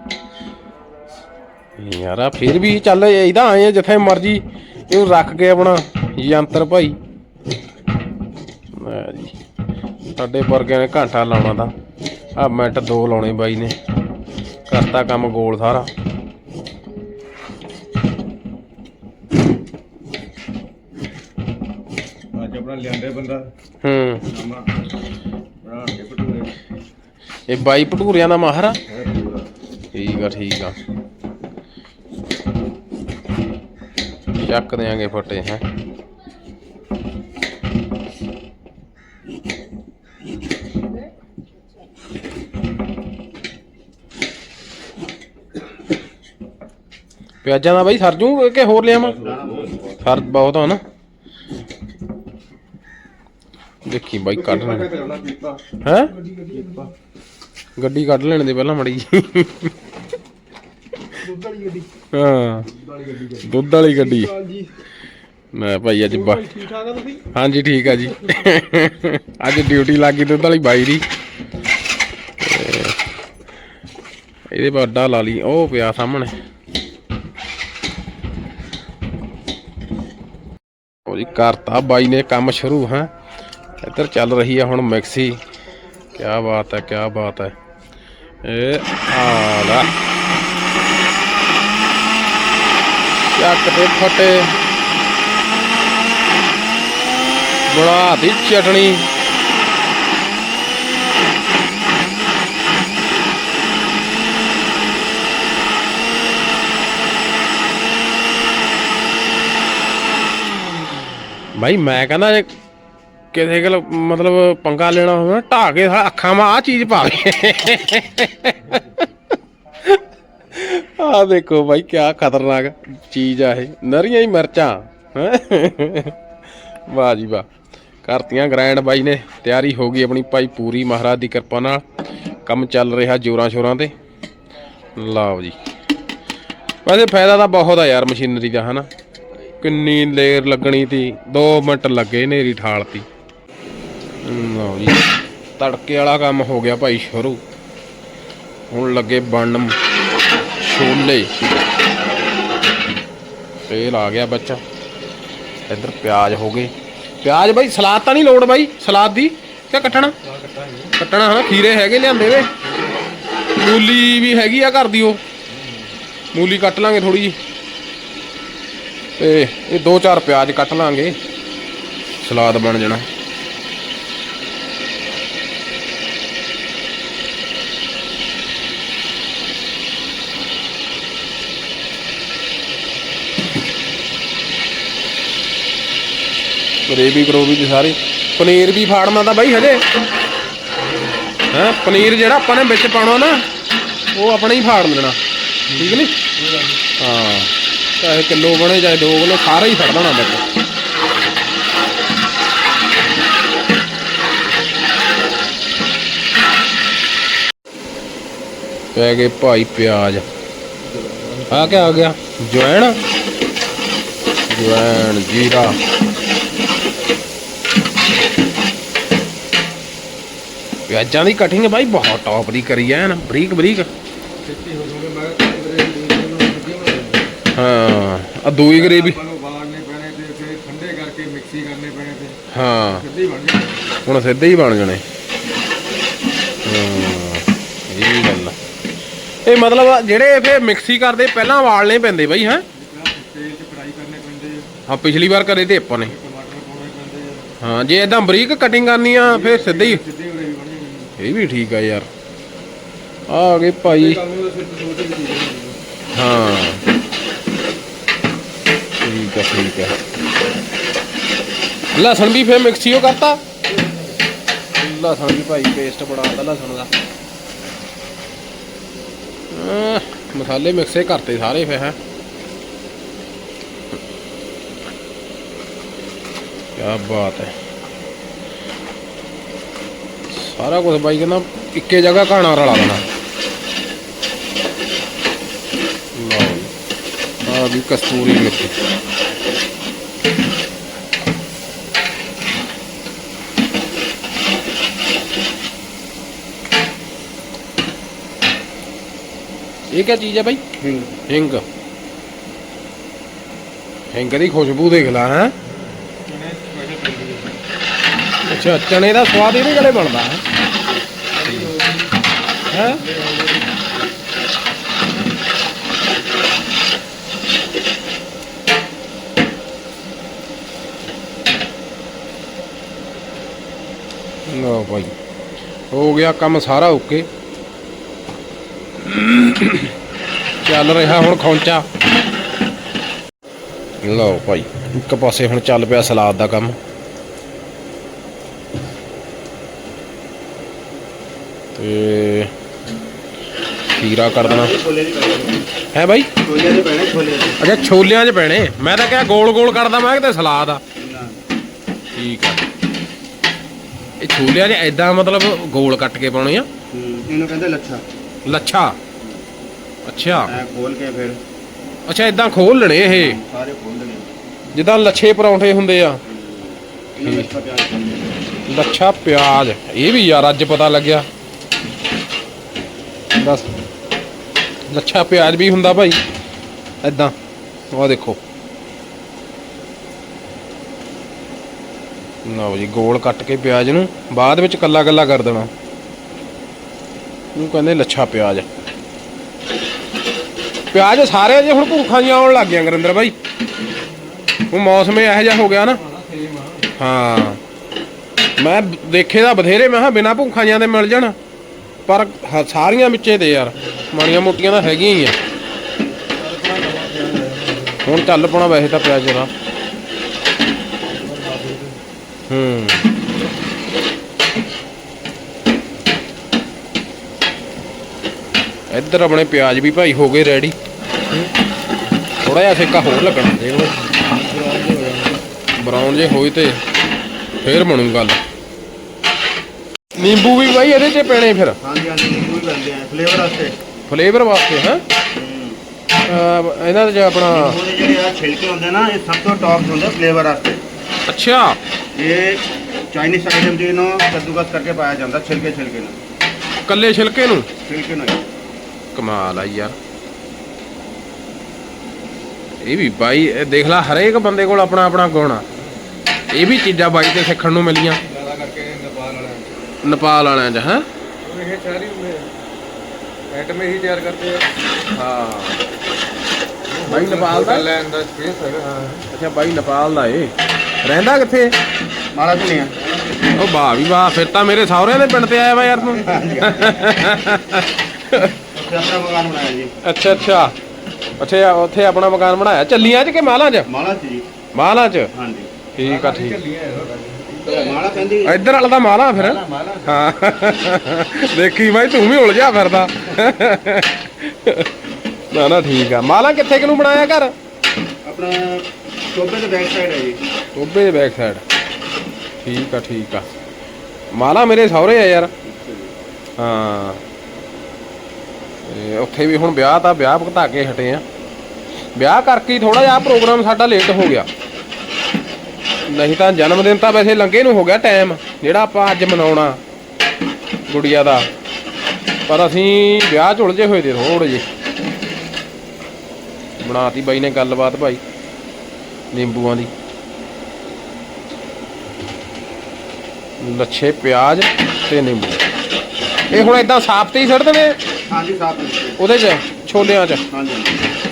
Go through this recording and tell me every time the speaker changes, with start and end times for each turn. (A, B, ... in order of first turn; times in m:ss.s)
0:01.8-0:07.0 A
0:08.7-0:09.3 A
0:10.2-0:11.7 A
0:12.4-0:13.8 A
0:14.7-0:15.9 A
0:22.3-0:23.5 B
0:23.8-0:24.2 A
0:24.3-0:24.7 B
0:25.6-0:26.6 B
0:27.5-0:28.8 A
0:28.9-0:29.5 B
0:29.9-0:30.8 A
0:34.4-0:35.6 A
0:47.4-0:49.2 A
0:48.9-0:50.0 B
0:49.1-0:49.9 C
0:50.0-0:50.8 A
0:53.8-0:54.9 A
0:54.3-0:55.6 B
0:55.8-0:56.2 A
0:56.3-0:56.9 B
0:57.8-0:59.7 A
1:01.2-1:01.8 B
1:02.1-1:02.7 A
1:02.7-1:04.7 B
1:03.4-1:04.3 A
1:05.5-1:06.5 A
1:06.1-1:07.2 B
1:07.3-1:11.0 A
1:12.4-1:13.0 A
1:14.5-1:16.4 A
1:21.1-1:23.1 A
1:23.8-1:25.4 A
1:26.2-1:27.5 A
1:28.4-1:29.9 A
1:33.2-1:34.6 A
1:37.7-1:39.0 A
1:51.6-1:52.5 A
1:53.3-1:59.0 A
2:00.5-2:06.2 A
2:06.9-2:07.5 A
2:08.0-2:11.8 A
2:12.5-2:13.9 A
2:15.0-2:15.6 A
2:16.8-2:18.9 A
2:19.6-2:23.1 A
2:24.2-2:25.0 A
2:25.6-2:27.4 A
2:28.7-2:29.8 A
2:30.6-2:31.3 A
2:33.7-2:34.6 A
2:35.7-2:36.7 A
2:37.2-2:40.2 A
2:39.8-2:41.0 B
2:41.0-2:42.5 A
2:42.6-2:43.2 B
2:43.6-2:45.2 A
2:45.5-2:46.0 B
2:46.3-2:47.4 A
2:49.2-2:51.2 A
2:52.2-2:53.1 A
3:06.9-3:09.8 A
3:10.8-3:11.3 B
3:11.5-3:13.4 A
3:14.1-3:15.2 A
3:15.7-3:16.8 B
3:15.8-3:16.2 A
3:17.0-3:20.4 A
3:28.9-3:30.2 A
3:30.8-3:32.0 B
3:31.5-3:33.0 A
3:34.5-3:35.8 A
3:40.9-3:43.9 A
3:44.4-3:47.4 B
3:47.6-3:49.2 A
3:48.7-3:54.0 B
3:52.5-3:53.0 A
3:54.0-3:55.0 A
3:56.6-3:58.6 A
3:59.4-4:02.6 A
4:02.7-4:04.7 B
4:04.9-4:06.1 A
4:06.0-4:07.5 B
4:07.6-4:10.0 A
4:09.2-4:11.2 B
4:11.2-4:12.1 A
4:13.3-4:14.2 A
4:13.8-4:15.8 B
4:16.1-4:16.8 A
4:19.0-4:20.0 A
4:21.9-4:23.4 A
4:23.7-4:24.2 B
4:24.8-4:26.9 A
4:29.5-4:32.0 A
4:36.8-4:37.6 A
4:40.3-4:43.0 A
4:46.2-4:46.7 A
4:47.4-4:48.8 A
4:59.9-5:00.6 A
5:00.8-5:01.1 C
5:01.3-5:01.6 A
5:04.1-5:05.5 A
5:05.7-5:07.6 B
5:08.5-5:10.4 A
5:11.3-5:12.2 B
5:12.7-5:13.8 B
5:12.7-5:13.0 A
5:24.5-5:25.1 A
5:25.9-5:27.3 A
5:29.0-5:29.9 A
5:30.6-5:31.9 A
5:34.0-5:36.8 A
5:41.8-5:42.5 A
5:44.0-5:44.7 A
5:44.3-5:45.7 C
5:45.9-5:46.3 A
5:46.4-5:47.6 C
5:47.6-5:50.8 A
5:51.0-5:51.4 C
5:52.2-5:52.6 A
5:54.2-5:56.7 A
5:56.9-5:58.0 C
5:58.4-5:59.0 A
6:00.0-6:00.5 A
6:00.4-6:01.4 C
6:02.1-6:03.4 A
6:03.1-6:04.3 C
6:04.7-6:06.2 A
6:06.3-6:08.4 C
6:08.7-6:11.3 A
6:13.4-6:13.7 A
6:14.9-6:16.2 A
6:17.0-6:17.4 A
6:17.9-6:18.4 A
6:22.4-6:25.7 A
6:27.6-6:28.7 A
6:30.9-6:33.4 A
6:33.8-6:34.5 B
6:34.7-6:36.0 A
6:35.6-6:36.9 B
6:37.0-6:37.6 A
6:38.6-6:41.4 A
6:42.1-6:45.4 A
6:46.3-6:48.2 B
6:48.0-6:49.5 A
6:51.1-6:52.0 B
6:52.5-6:53.1 A
6:58.9-7:00.8 A
7:02.4-7:04.2 A
7:04.2-7:05.4 B
7:05.8-7:06.8 A
7:07.6-7:08.4 A
7:10.2-7:11.8 A
7:11.8-7:13.8 C
7:14.1-7:15.0 A
7:15.3-7:15.8 C
7:16.2-7:17.8 A
7:17.5-7:20.8 C
7:21.3-7:21.8 A
7:22.2-7:26.2 C
7:26.9-7:27.7 A
7:27.8-7:28.5 C
7:29.2-7:30.0 A
7:32.8-7:35.6 A
7:36.5-7:38.2 A
7:38.2-7:39.8 B
7:40.0-7:41.1 A
7:41.4-7:42.5 B
7:43.5-7:44.6 B
7:45.1-7:45.8 A
7:46.9-7:49.3 B
7:47.1-7:47.9 A
7:49.3-7:50.5 A
7:51.0-7:51.7 A
7:52.3-7:52.9 C
7:53.0-7:53.6 B
7:53.5-7:58.6 A
7:56.2-7:57.0 C
7:58.7-7:59.9 C
8:00.0-8:00.7 A
8:01.4-8:03.9 A
8:03.9-8:04.5 C
8:04.7-8:05.3 A
8:05.3-8:05.7 C
8:06.0-8:06.6 A
8:06.0-8:08.3 B
8:07.7-8:08.6 C
8:08.4-8:14.9 A
8:09.3-8:10.3 C
8:15.5-8:17.5 A
8:18.2-8:20.4 C
8:20.8-8:21.6 A
8:22.6-8:23.5 A
8:24.3-8:25.5 A
8:25.6-8:26.1 C
8:26.6-8:27.2 A
8:28.9-8:31.2 A
8:32.2-8:34.5 A
8:36.1-8:39.8 A
8:40.9-8:41.5 A
8:42.5-8:44.7 A
8:46.8-8:48.2 A
8:49.3-8:49.9 A
8:53.6-8:55.6 A
8:56.5-8:58.0 A
8:58.3-8:59.2 C
8:59.2-9:00.4 A
9:00.5-9:01.1 C